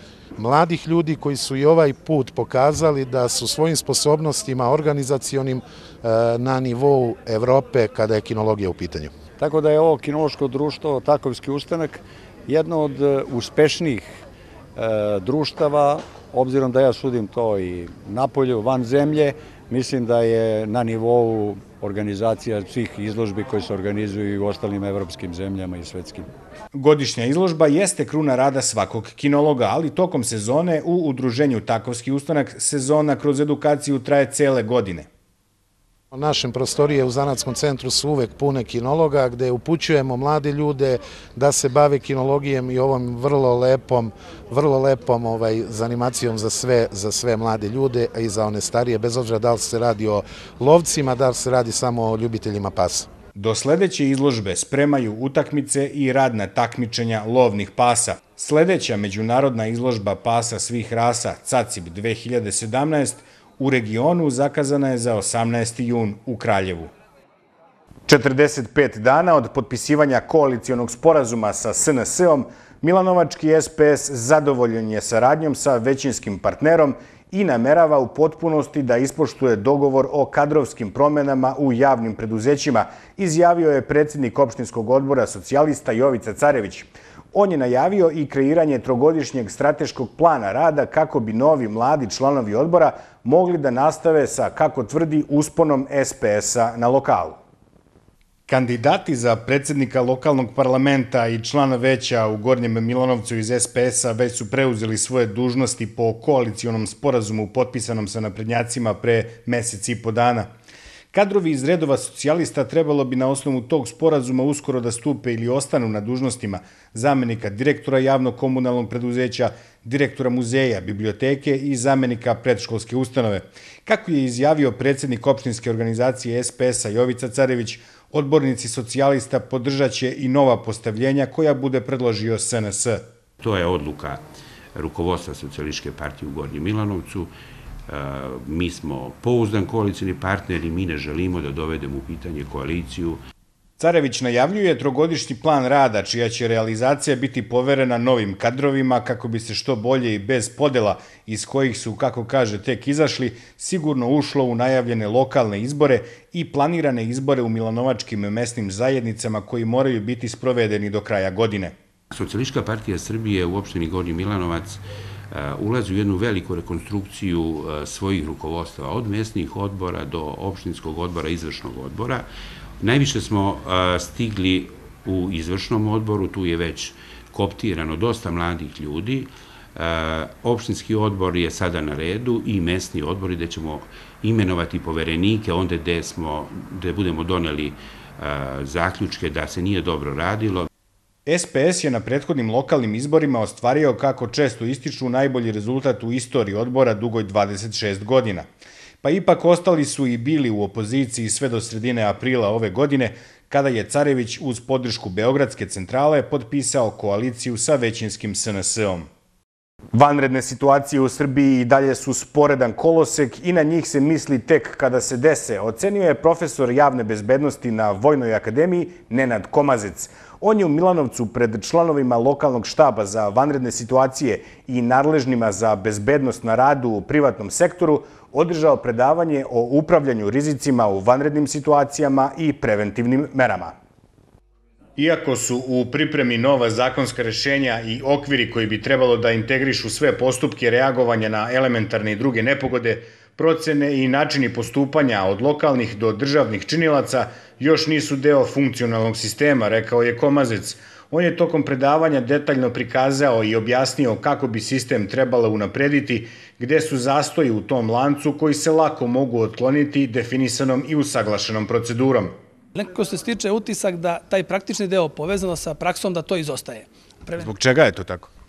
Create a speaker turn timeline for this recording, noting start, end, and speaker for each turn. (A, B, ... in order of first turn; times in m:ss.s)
0:00.4-0:09.1 A
0:09.4-0:14.1 B
0:14.8-0:26.3 B
0:26.7-0:35.1 C
0:36.1-0:53.1 A
0:53.3-1:06.9 C
1:08.1-1:37.4 C
1:38.5-1:50.5 C
1:51.1-2:13.0 C
2:13.4-2:14.2 D
2:14.8-2:17.3 D
2:17.9-2:23.2 D
2:23.8-2:41.7 C
2:42.1-2:44.8 D
2:45.3-2:52.3 D
2:52.8-3:10.7 D
3:11.3-3:18.4 C
3:19.0-3:29.1 C
3:29.9-3:53.7 C
3:55.0-4:22.3 C
4:22.7-4:27.5 E
4:27.4-4:28.3 C